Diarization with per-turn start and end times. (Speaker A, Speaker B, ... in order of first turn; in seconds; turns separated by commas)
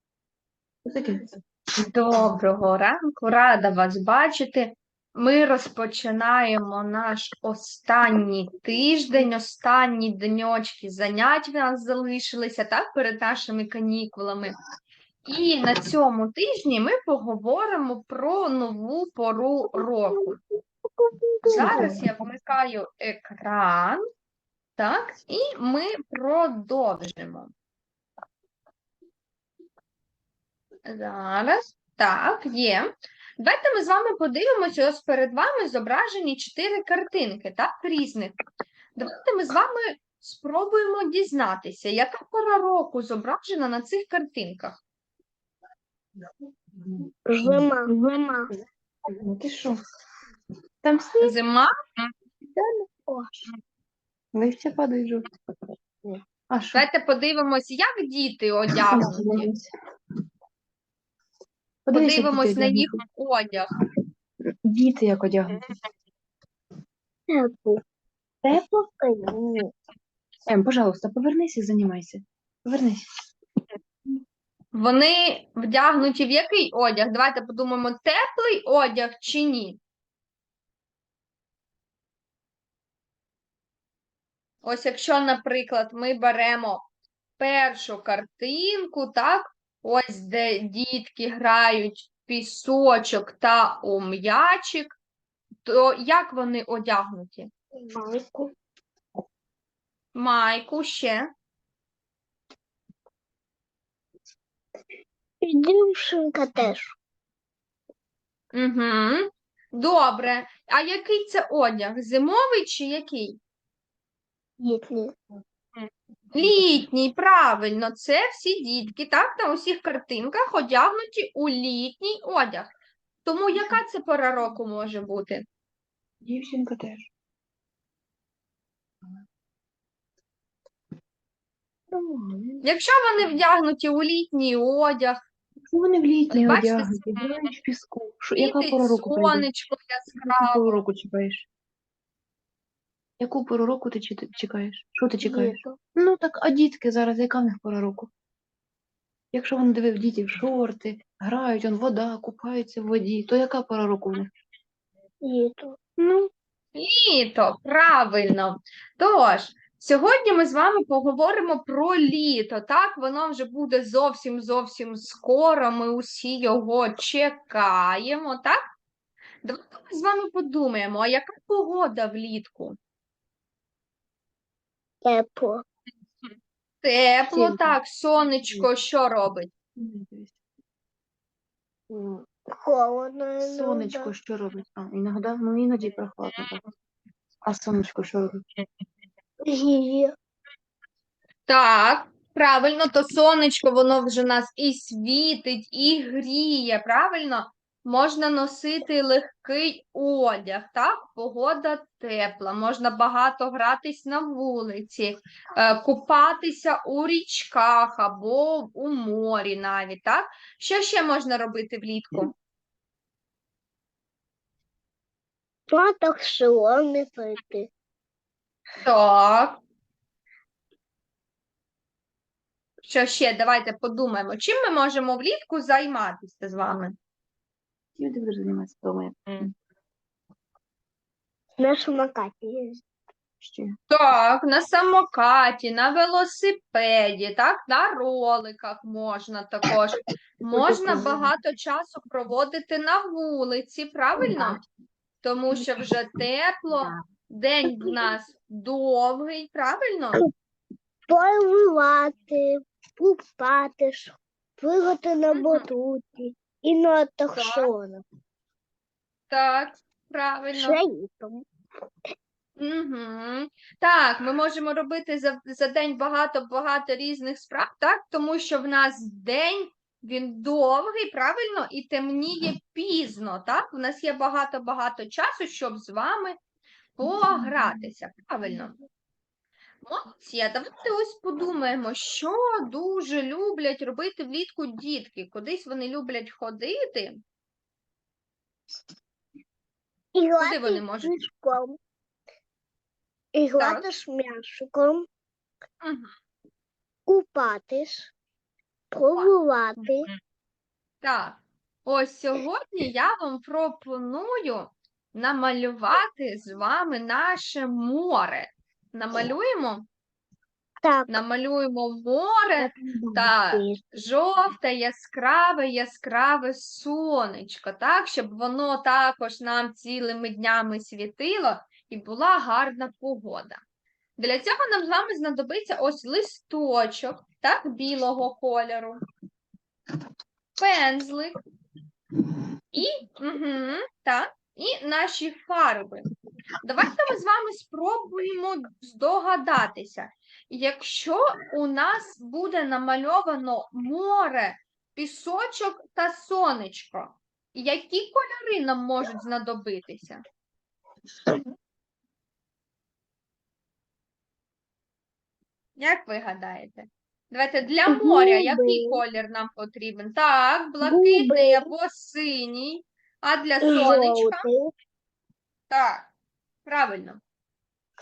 Speaker A: 0.8-1.4, Speaker B: 1.8-14.6, Speaker B: 15.2-20.4, Speaker C: 19.7-20.3, Speaker C: 21.0-21.9, Speaker B: 21.4-24.0, Speaker A: 21.6-22.0, Speaker B: 24.8-27.5, Speaker B: 30.9-38.4, Speaker B: 39.0-44.8, Speaker A: 46.2-47.7, Speaker C: 47.3-48.5, Speaker A: 49.0-49.8, Speaker A: 50.8-51.4, Speaker B: 51.2-51.7, Speaker A: 52.4-52.8, Speaker C: 53.1-53.4, Speaker A: 54.3-55.3, Speaker A: 56.5-56.9, Speaker B: 56.7-59.5, Speaker A: 58.7-59.7, Speaker A: 61.9-63.0, Speaker B: 61.9-63.7, Speaker A: 64.5-65.7, Speaker C: 67.3-67.8, Speaker A: 68.4-68.7, Speaker C: 68.6-69.7, Speaker A: 70.5-73.0, Speaker B: 74.7-79.8, Speaker B: 84.6-86.8, Speaker B: 87.4-95.0, Speaker B: 95.6-97.5, Speaker C: 97.8-98.5, Speaker B: 100.1-101.2, Speaker C: 105.4-106.9, Speaker B: 108.5-113.4, Speaker C: 114.6-115.1, Speaker B: 115.7-122.7, Speaker B: 123.2-125.5, Speaker A: 123.5-123.8, Speaker A: 126.2-127.1, Speaker A: 131.9-132.7, Speaker B: 132.6-135.2, Speaker A: 135.7-139.5, Speaker B: 136.3-137.6, Speaker B: 138.4-140.8, Speaker A: 140.1-141.4, Speaker A: 143.2-148.1, Speaker C: 145.2-145.8, Speaker A: 149.3-154.3, Speaker C: 155.2-155.8, Speaker B: 156.0-168.6, Speaker B: 169.4-172.8, Speaker C: 175.0-175.6, Speaker B: 176.2-179.5, Speaker A: 177.3-177.8, Speaker A: 179.8-180.4, Speaker A: 181.9-182.3, Speaker C: 182.5-184.1, Speaker A: 183.4-186.6, Speaker A: 187.4-188.4, Speaker C: 189.4-190.1, Speaker B: 191.5-212.3, Speaker C: 215.7-217.7, Speaker B: 218.8-219.6, Speaker B: 222.8-226.9, Speaker A: 228.0-229.5, Speaker C: 231.6-232.8, Speaker A: 233.4-233.7, Speaker B: 233.9-244.6, Speaker A: 240.5-241.2, Speaker B: 245.2-250.2, Speaker C: 247.7-248.0, Speaker C: 251.1-258.0, Speaker B: 255.3-255.7, Speaker B: 257.4-257.7, Speaker B: 259.3-260.8, Speaker C: 260.6-261.4, Speaker B: 262.6-276.4, Speaker B: 277.0-278.8, Speaker B: 279.8-287.2, Speaker C: 290.1-291.8, Speaker B: 290.4-291.2, Speaker C: 293.3-295.1, Speaker B: 293.6-294.0, Speaker B: 295.8-296.1, Speaker C: 297.1-298.1, Speaker C: 298.9-300.1, Speaker B: 299.1-300.0, Speaker B: 301.0-309.9, Speaker C: 310.8-311.2, Speaker B: 311.1-323.6, Speaker C: 312.6-313.8, Speaker B: 324.2-329.0, Speaker B: 330.6-331.4, Speaker B: 332.7-336.1, Speaker B: 336.6-350.2, Speaker B: 355.8-364.5, Speaker C: 357.9-359.0, Speaker C: 360.8-361.7, Speaker C: 363.6-364.7, Speaker B: 365.7-366.1, Speaker B: 366.6-367.2